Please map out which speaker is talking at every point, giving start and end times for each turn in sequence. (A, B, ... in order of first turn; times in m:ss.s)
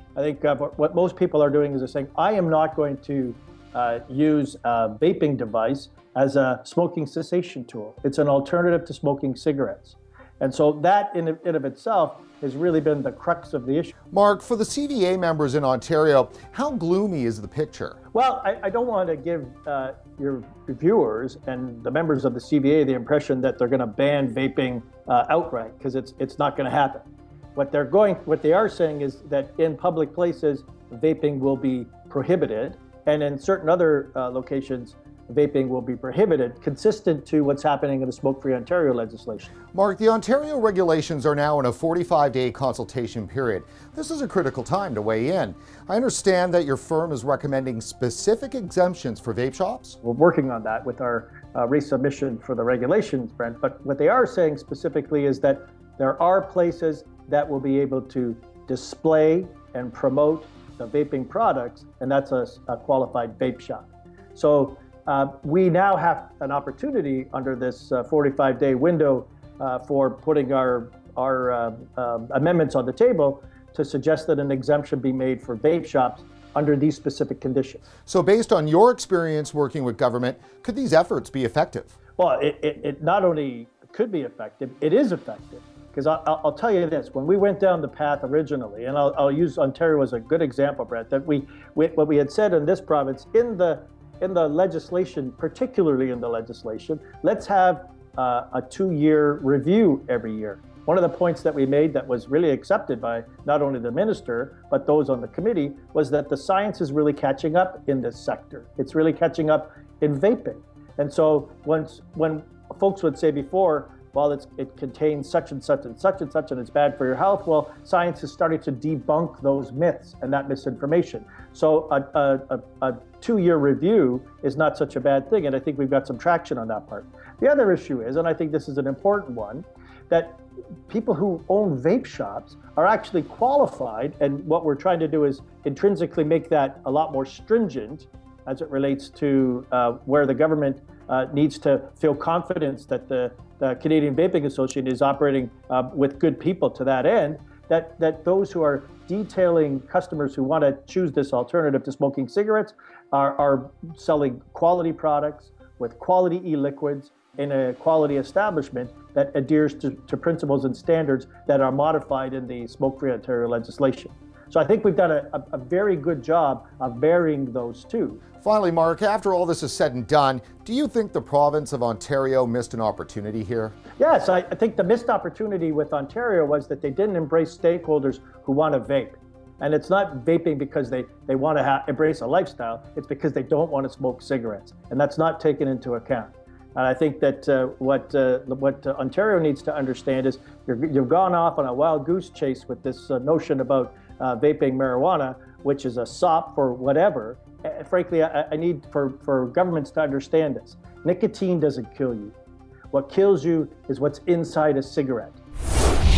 0:00.2-0:13.9 A
0:14.1-0:18.0 B
0:18.1-0:27.0 A
0:27.5-0:39.5 A
0:39.7-0:50.0 B
0:50.0-1:17.8 A
1:18.1-1:21.9 B
1:22.2-2:48.2 A
2:48.4-2:53.8 B
2:54.0-3:22.3 A
3:22.9-3:25.4 A